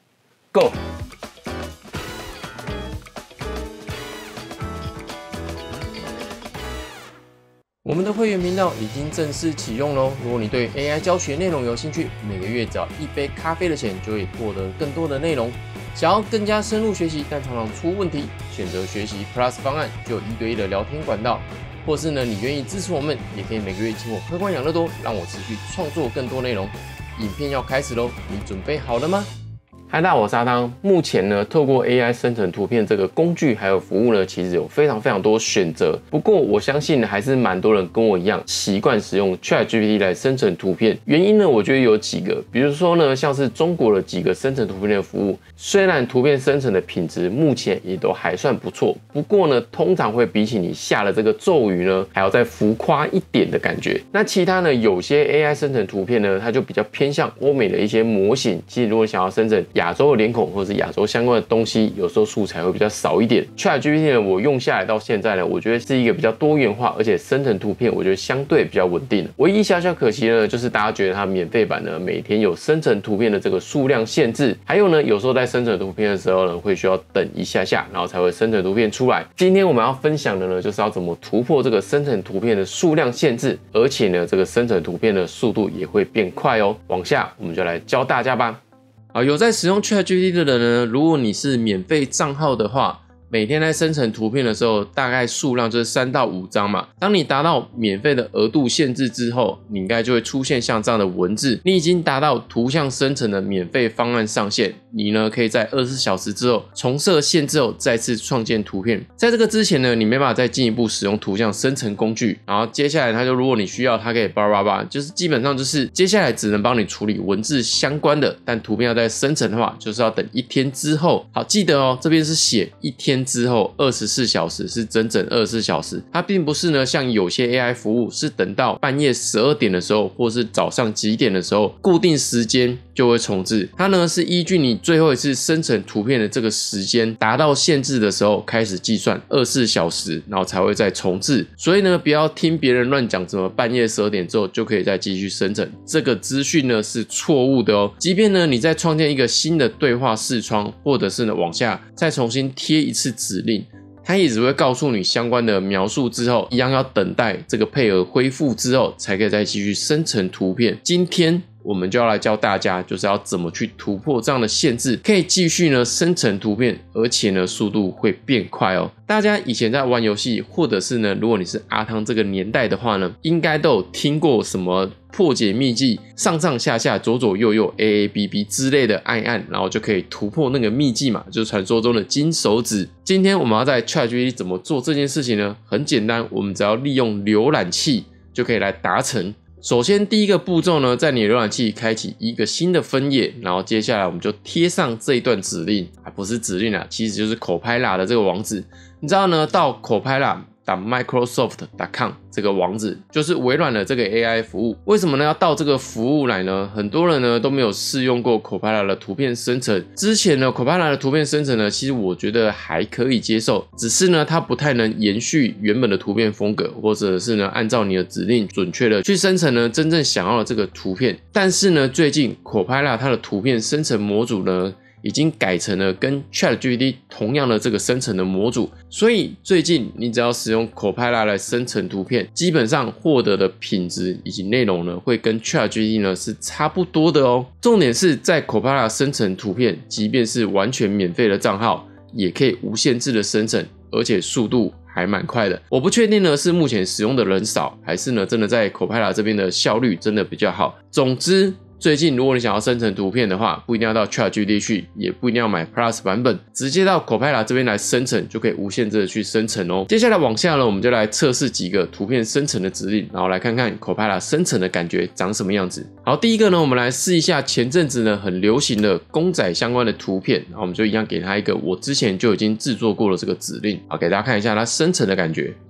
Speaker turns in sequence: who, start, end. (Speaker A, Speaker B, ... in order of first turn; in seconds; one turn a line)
Speaker A: 7.8-29.3
Speaker A: 29.9-88.6
Speaker A: 89.1-275.6